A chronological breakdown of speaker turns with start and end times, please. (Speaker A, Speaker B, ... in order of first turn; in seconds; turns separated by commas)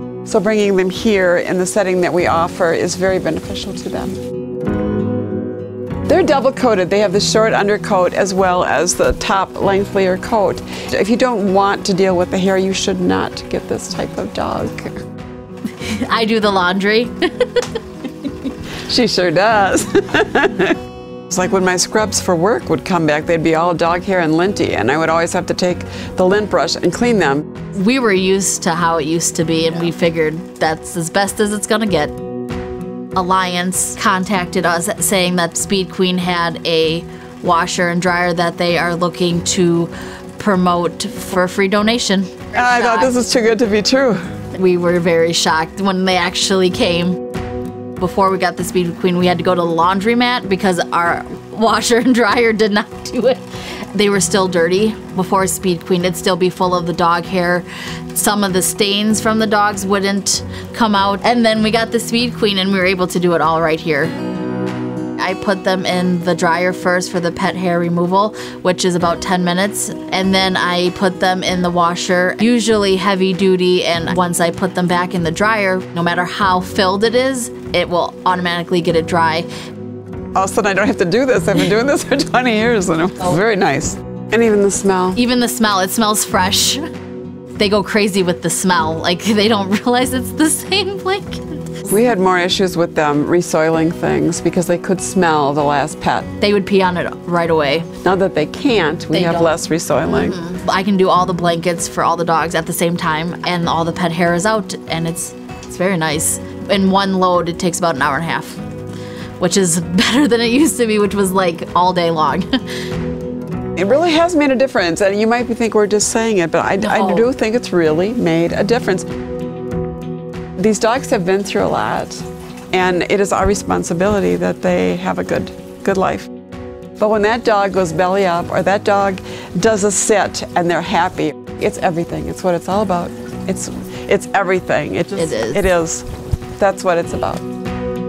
Speaker A: 0.2-4.2, Speaker A: 6.1-14.8, Speaker B: 15.8-18.3, Speaker A: 18.9-20.8, Speaker A: 21.3-27.4, Speaker B: 27.8-32.1, Speaker B: 33.1-43.2, Speaker A: 42.5-44.2, Speaker B: 44.5-47.2, Speaker B: 48.0-64.1, Speaker B: 65.2-79.5, Speaker A: 80.3-85.2, Speaker B: 85.2-86.8, Speaker B: 87.6-91.9, Speaker A: 91.9-96.3, Speaker B: 96.4-97.9, Speaker A: 98.0-100.4, Speaker B: 99.1-99.5, Speaker B: 100.1-108.6, Speaker B: 109.4-112.5, Speaker A: 113.8-119.0, Speaker B: 116.8-117.3, Speaker A: 120.6-126.3, Speaker A: 127.0-136.0, Speaker B: 135.2-135.6, Speaker A: 136.6-137.4